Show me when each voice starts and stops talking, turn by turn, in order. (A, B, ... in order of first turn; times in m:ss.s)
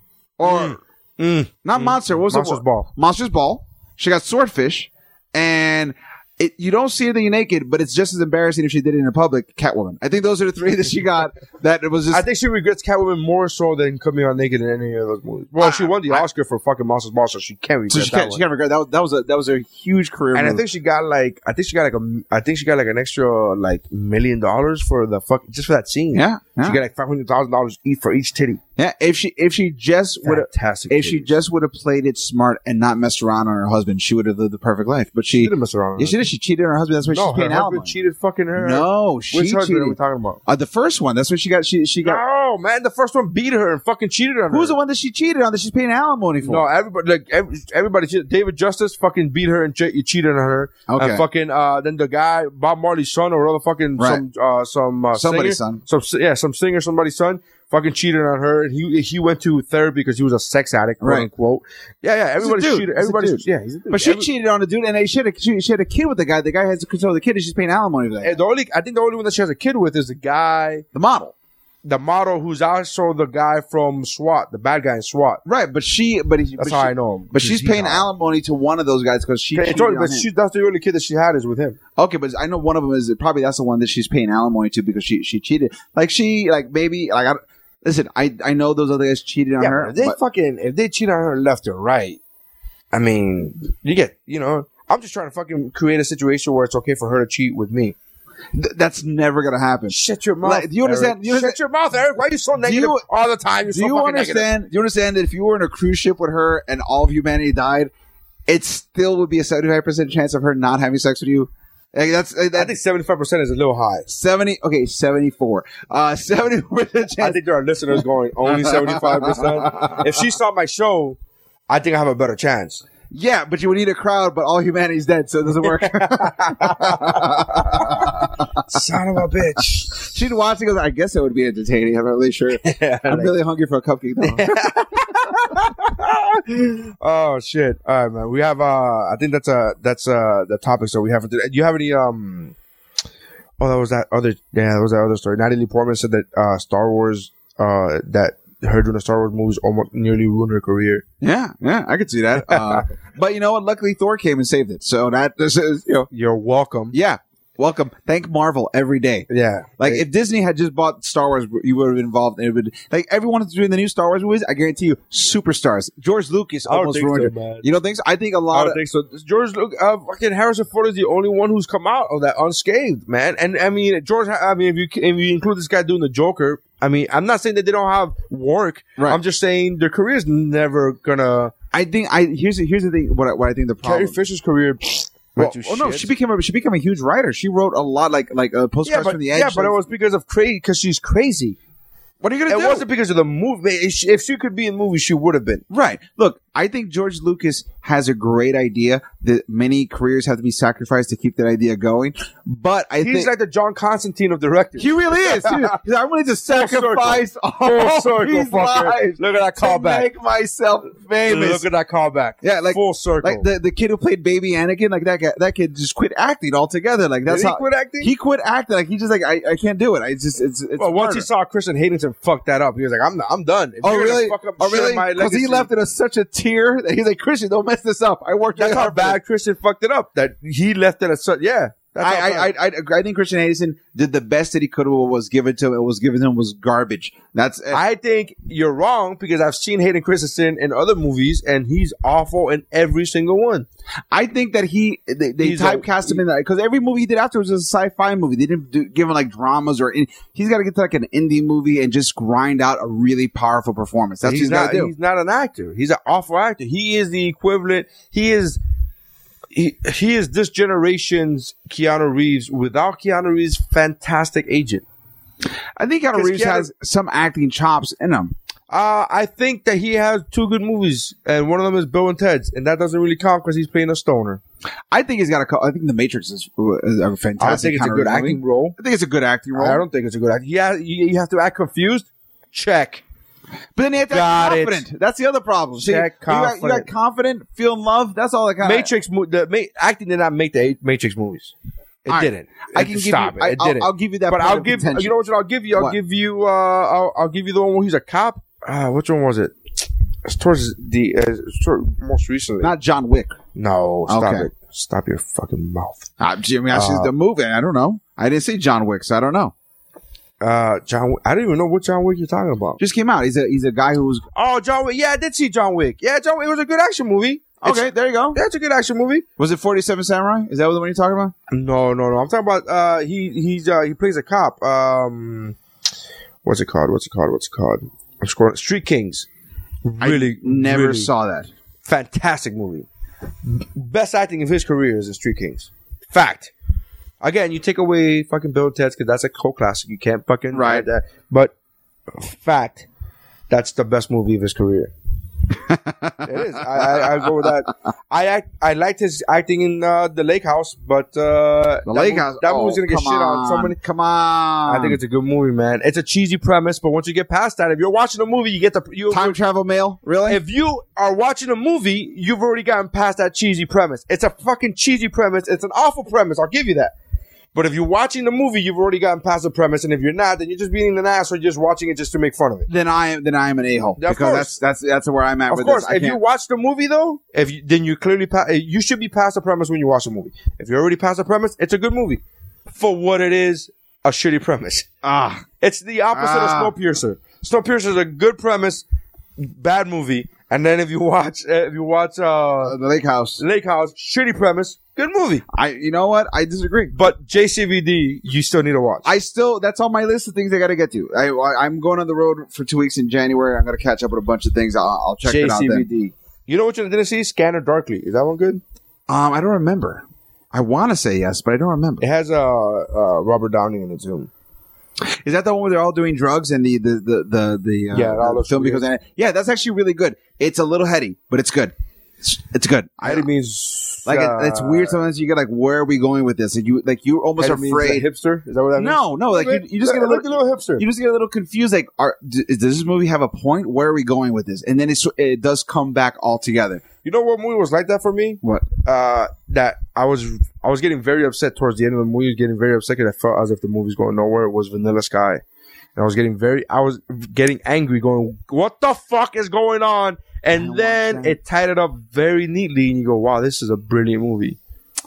0:00.4-0:00.8 A
0:00.4-0:02.9 B
0:01.6-0:12.3 A
0:12.1-0:18.4 B
0:15.6-0:16.3 A
0:17.9-0:20.6 A
0:20.3-0:28.6 B
0:26.1-0:26.8 A
0:28.8-0:37.9 A
0:30.2-0:31.3 B
0:35.4-0:36.2 B
0:37.1-0:40.4 B
0:38.6-0:42.2 A
0:42.0-0:44.8 B
0:44.5-0:46.6 A
0:46.4-1:04.3 B
0:50.9-0:51.2 A
0:54.0-0:54.2 A
0:55.1-0:55.8 A
1:01.0-1:01.3 A
1:02.4-1:08.4 A
1:08.2-1:10.8 B
1:10.9-1:11.3 A
1:11.8-1:15.4 B
1:15.4-1:20.3 A
1:16.6-1:18.1 B
1:19.6-1:21.8 B
1:22.0-1:30.2 A
1:29.6-1:32.2 B
1:32.9-1:38.0 B
1:38.5-1:41.6 A
1:39.9-1:44.5 B
1:42.6-1:43.1 A
1:43.6-1:47.9 A
1:48.5-1:52.7 A
1:52.6-1:54.1 B
1:54.1-1:57.4 A
1:57.2-2:01.2 B
1:58.5-2:00.0 A
2:01.7-2:02.8 B
2:03.1-2:08.5 A
2:05.6-2:10.2 B
2:10.0-2:15.6 A
2:12.6-2:13.3 B
2:14.2-2:22.5 B
2:23.6-2:31.0 B
2:31.2-2:36.1 A
2:32.5-2:32.8 B
2:36.1-2:36.9 B
2:36.9-2:48.8 A
2:39.3-2:40.0 B
2:46.7-2:47.7 B
2:48.5-3:01.5 B
3:01.7-3:04.2 A
3:03.8-3:06.1 B
3:05.4-3:09.8 A
3:08.8-3:11.6 B
3:12.2-3:12.9 A
3:12.5-3:15.6 B
3:15.7-3:23.3 A
3:23.0-3:25.7 B
3:24.8-3:31.6 A
3:26.5-3:30.1 B
3:31.2-3:33.5 B
3:32.4-3:41.3 A
3:37.3-3:38.1 B
3:40.8-3:45.7 B
3:43.8-3:49.2 A
3:48.6-3:52.5 B
3:52.0-3:57.8 A
3:57.7-4:03.7 B
4:04.1-4:14.9 A
4:05.4-4:06.2 B
4:14.2-4:18.6 B
4:19.5-4:24.8 B
4:25.8-4:28.3 A
4:26.1-4:26.7 B
4:28.7-4:34.4 B
4:34.9-4:39.8 A
4:37.4-4:38.8 B
4:39.6-4:43.0 B
4:43.8-4:48.9 A
4:44.1-4:44.8 B
4:45.8-4:46.9 B
4:48.6-4:51.5 B
4:52.1-4:55.1 A
4:52.1-4:59.6 B
4:55.7-4:56.0 A
5:00.2-5:02.7 B
5:02.6-5:03.4 A
5:03.6-5:06.1 B
5:04.1-5:04.5 A
5:06.2-5:09.5 A
5:06.7-5:07.1 B
5:10.4-5:12.8 B
5:12.8-5:14.2 A
5:14.4-5:19.2 B
5:17.6-5:18.4 A
5:19.4-5:21.3 A
5:21.5-5:25.6 B
5:26.4-5:29.3 B
5:29.8-5:31.1 B
5:30.0-5:31.5 A
5:31.8-5:32.9 B
5:33.4-5:36.5 B
5:37.2-5:41.5 B
5:40.5-5:40.9 A
5:42.1-5:42.9 B
5:43.5-5:44.9 B
5:45.7-5:47.4 A
5:46.2-5:53.8 B
5:51.9-5:55.0 A
5:54.7-5:59.4 B
5:59.1-6:00.4 A
6:00.3-6:06.9 B
6:07.6-6:12.7 B
6:12.7-6:16.2 A
6:14.0-6:14.6 B
6:15.5-6:24.9 B
6:25.0-6:25.4 A
6:25.6-6:28.8 B
6:26.1-6:26.8 A
6:29.4-6:32.8 B
6:32.6-6:33.4 A
6:33.4-6:35.4 B
6:35.5-6:37.1 A
6:36.9-6:39.1 B
6:39.0-6:45.9 A
6:45.2-6:48.6 B
6:49.1-6:52.0 A
6:52.0-6:54.3 B
6:55.1-7:03.3 A
6:57.9-6:58.8 B
7:03.0-7:05.0 B
7:04.0-7:08.1 A
7:07.4-7:10.8 B
7:08.7-7:16.8 A
7:17.0-7:25.4 B
7:26.0-7:34.6 B
7:30.5-7:31.4 A